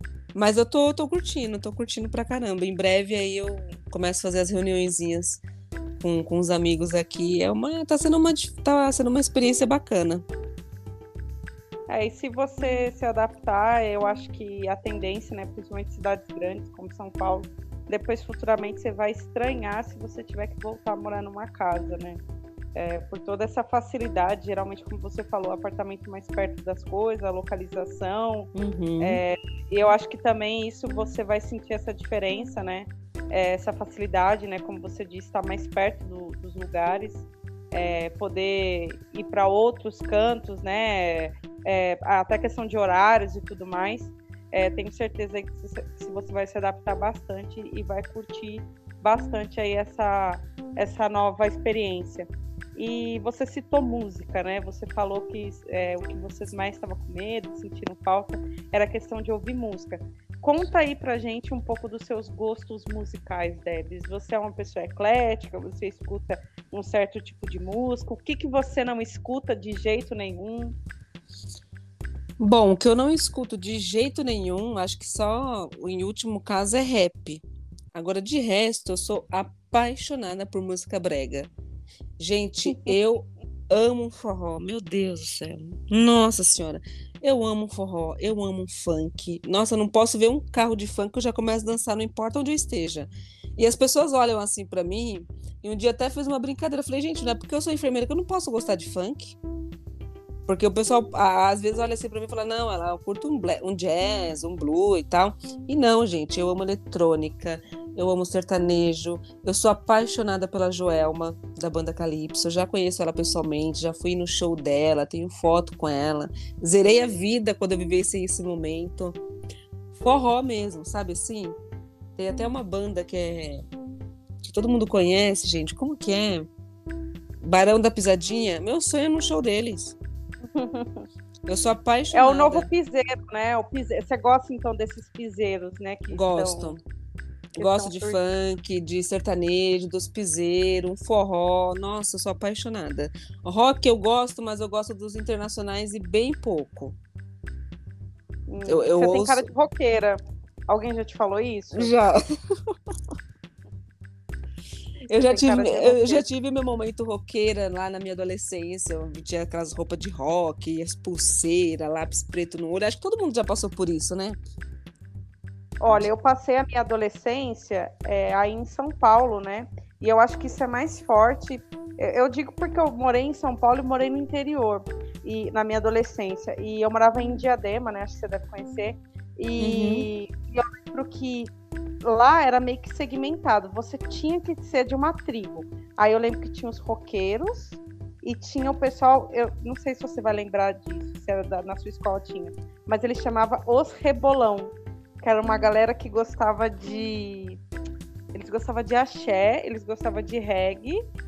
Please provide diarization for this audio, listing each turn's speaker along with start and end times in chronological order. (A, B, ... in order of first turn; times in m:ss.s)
0:00.3-0:05.4 A
0:06.0-0:10.2 A
0:11.9-0:22.2 B
0:22.7-1:10.7 B
0:28.5-0:29.2 A
1:12.4-1:21.5 A
1:22.2-1:39.4 A
1:22.7-1:22.9 B
1:40.4-1:59.2 A
1:59.9-2:01.6 A
2:02.2-2:03.6 A
2:04.4-2:06.5 A
2:07.4-2:10.0 A
2:10.5-2:11.0 B
2:11.4-2:12.7 A
2:12.1-2:16.8 B
2:16.1-2:16.8 A
2:17.6-2:27.0 A
2:17.6-2:18.2 B
2:28.5-2:31.9 B
2:28.7-2:29.5 A
2:31.7-2:32.7 A
2:35.1-2:44.4 A
2:35.2-2:36.2 B
2:45.8-3:01.5 B
2:59.6-3:00.0 A
3:02.0-3:17.6 B
3:18.3-3:21.0 B